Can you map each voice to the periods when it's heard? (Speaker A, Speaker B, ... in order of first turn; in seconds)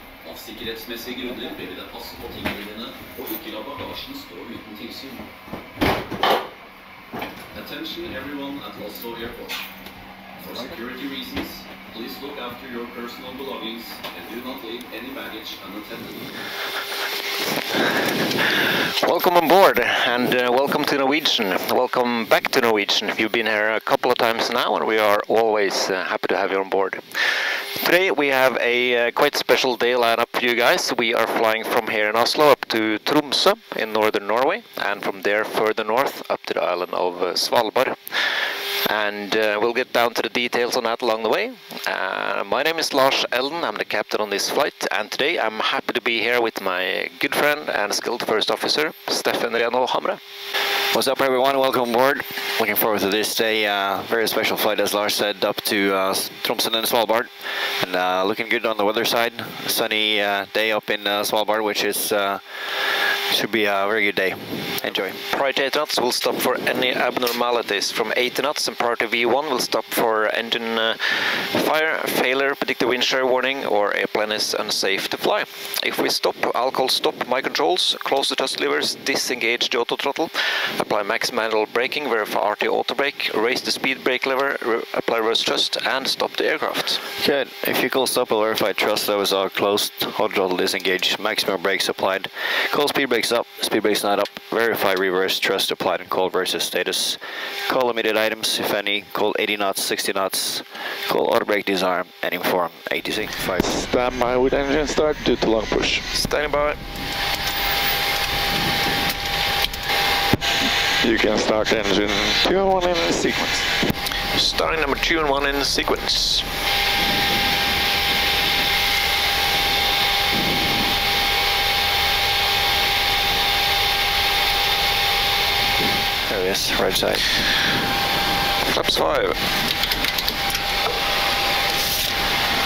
Speaker A: 0.2-5.2, 7.5-9.6, 10.4-16.3
Speaker B: 19.0-50.2, 65.3-87.0, 106.1-106.8, 114.3-116.5, 128.7-129.4
Speaker C: 50.9-65.2, 87.2-103.8, 126.3-127.3
Speaker D: 103.6-106.0, 111.0-113.7